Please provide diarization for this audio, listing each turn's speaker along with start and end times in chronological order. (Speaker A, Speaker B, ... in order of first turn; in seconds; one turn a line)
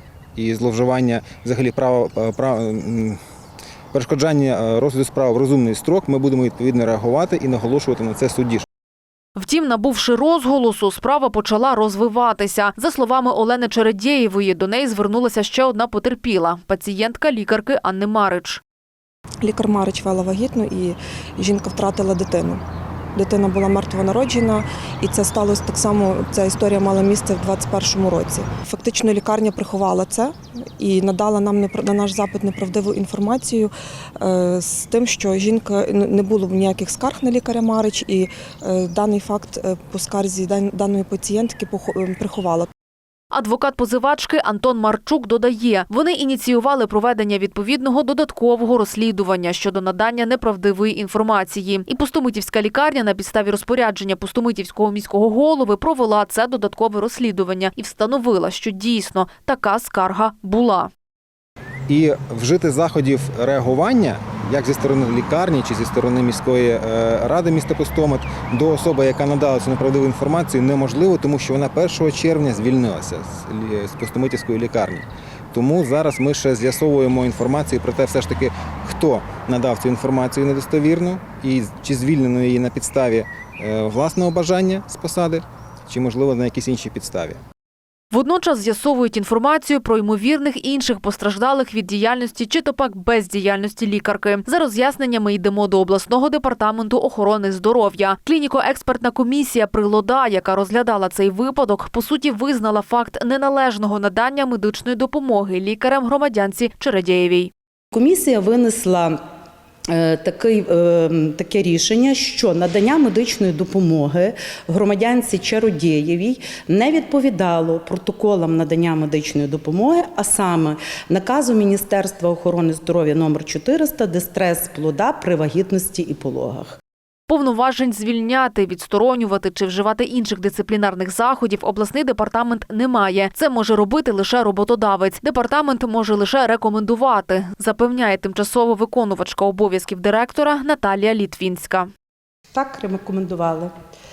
Speaker A: 0.4-3.2
Speaker A: 3.9-8.7
Speaker B: 9.4-18.6
Speaker C: 19.4-22.6
Speaker C: 23.1-42.7
Speaker B: 43.3-60.9
Speaker A: 61.9-87.4
Speaker B: 88.1-107.5
Speaker D: 107.9-109.2
Speaker D: 110.0-126.8
Speaker B: 127.3-141.9
Speaker D: 142.6-143.7